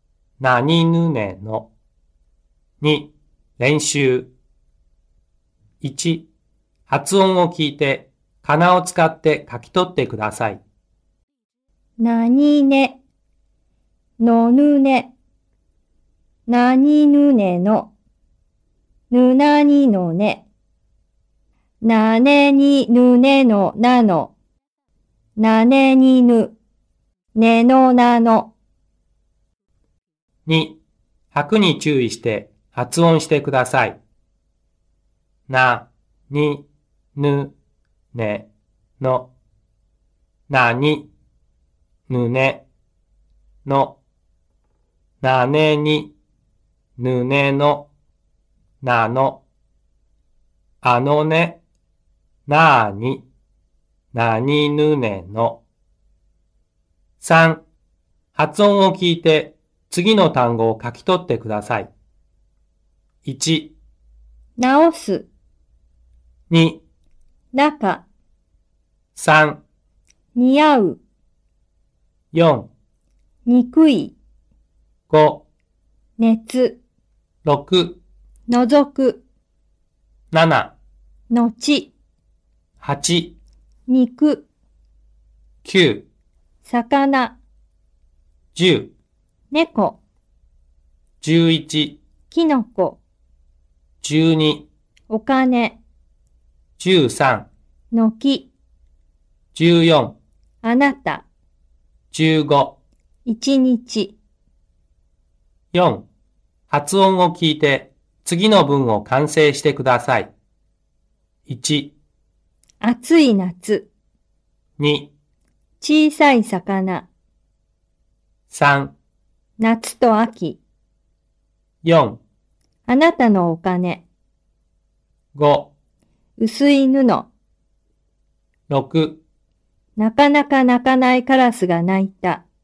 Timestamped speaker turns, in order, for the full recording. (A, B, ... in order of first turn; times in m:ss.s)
0:00.4-0:01.7 A
0:02.8-0:04.3 A
0:05.8-0:06.3 A
0:06.9-0:10.6 A
0:12.0-0:13.0 B
0:14.2-0:15.1 B
0:16.5-0:17.9 B
0:19.1-0:20.4 B
0:21.8-0:24.3 B
0:25.4-0:26.5 B
0:27.3-0:28.5 B
0:30.4-0:30.8 A
0:31.3-0:34.0 A
0:35.5-0:37.5 A
0:38.1-0:38.5 A
0:39.0-0:39.3 A
0:40.5-0:41.1 A
0:42.1-0:42.6 A
0:43.6-0:44.0 A
0:45.2-0:46.1 A
0:47.0-0:47.9 A
0:48.8-0:49.4 A
0:50.8-0:51.6 A
0:52.5-0:53.2 A
0:54.1-0:55.6 A
0:57.2-0:57.6 A
0:58.3-1:01.9 A
1:03.2-1:03.7 A
1:04.6-1:05.3 B
1:06.5-1:06.8 A
1:07.5-1:08.0 B
1:09.1-1:09.6 A
1:10.3-1:11.0 B
1:12.3-1:12.7 A
1:13.4-1:14.1 B
1:15.1-1:15.4 A
1:16.2-1:16.8 B
1:17.4-1:18.0 A
1:18.5-1:19.2 B
1:20.3-1:20.7 A
1:21.3-1:21.9 B
1:22.8-1:23.3 A
1:23.9-1:24.4 B
1:25.6-1:26.1 A
1:26.6-1:27.4 B
1:28.5-1:28.9 A
1:29.5-1:30.0 B
1:31.2-1:32.0 A
1:32.3-1:33.0 B
1:34.0-1:34.7 A
1:35.1-1:35.8 B
1:36.8-1:37.5 A
1:37.9-1:38.5 B
1:39.5-1:40.2 A
1:40.6-1:41.2 B
1:42.1-1:42.8 A
1:43.2-1:44.2 B
1:45.7-1:46.1 A
1:46.7-1:50.3 A
1:51.5-1:51.9 A
1:52.8-1:53.9 B
1:54.8-1:55.1 A
1:55.8-1:57.1 B
1:58.5-1:58.9 A
1:59.6-2:00.6 B
2:01.8-2:02.2 A
2:02.8-2:04.0 B
2:05.3-2:05.7 A
2:06.4-2:07.3 B
2:08.7-2:09.2 A
2:10.0-2:12.4 B